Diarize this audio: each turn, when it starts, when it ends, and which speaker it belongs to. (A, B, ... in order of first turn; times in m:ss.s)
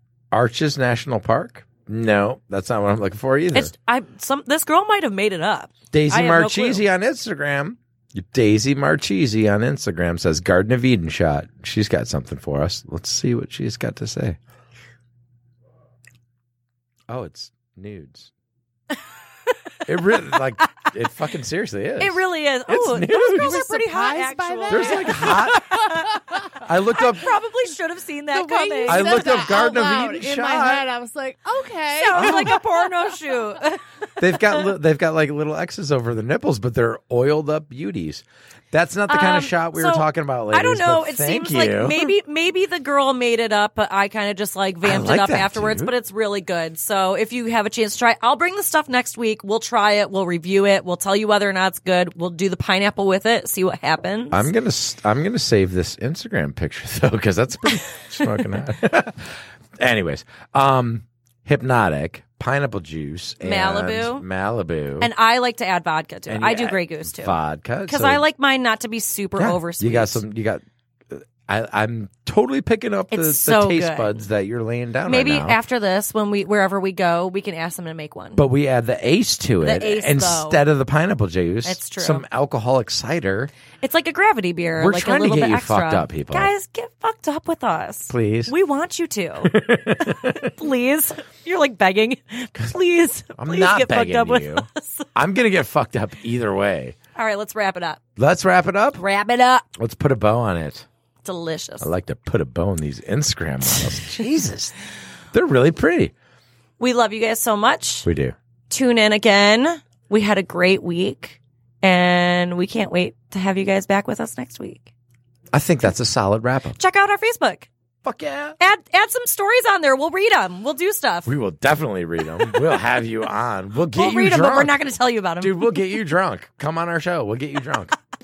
0:00.3-0:03.7 A
0:03.5-0:06.8 B
0:05.9-0:14.4 A
0:17.1-0:18.3 A
0:19.8-0:23.7 A
0:22.0-0:29.3 B
0:23.1-0:26.4 C
0:24.7-0:27.3 A
0:28.3-0:33.4 C
0:28.8-0:30.9 A
0:31.9-0:33.8 B
0:32.1-0:32.6 A
0:34.2-0:42.1 A
0:34.3-0:34.6 B
0:39.1-0:54.5 B
0:44.8-0:45.9 A
0:54.3-1:05.1 A
1:03.4-1:04.2 B
1:05.0-1:10.2 B
1:06.3-1:08.2 A
1:09.4-1:15.6 A
1:13.1-1:14.2 B
1:15.0-1:18.4 B
1:18.4-1:23.5 A
1:19.6-1:20.6 B
1:21.6-1:22.2 B
1:23.8-1:35.1 B
1:24.8-1:26.5 A
1:28.1-1:28.5 A
1:29.4-1:30.5 A
1:33.4-1:37.0 A
1:37.2-1:38.0 B
1:38.2-1:39.0 A
1:39.0-1:39.7 B
1:39.7-1:40.8 A
1:41.2-1:41.9 B
1:41.8-1:44.7 A
1:45.3-1:46.1 A
1:46.8-1:48.0 B
1:48.0-1:48.3 A
1:48.7-1:54.9 B
1:55.5-1:56.8 A
1:56.8-1:57.7 B
1:58.0-1:58.6 A
1:58.6-2:01.3 B
2:01.2-2:04.8 A
2:03.9-2:05.9 B
2:05.4-2:07.9 A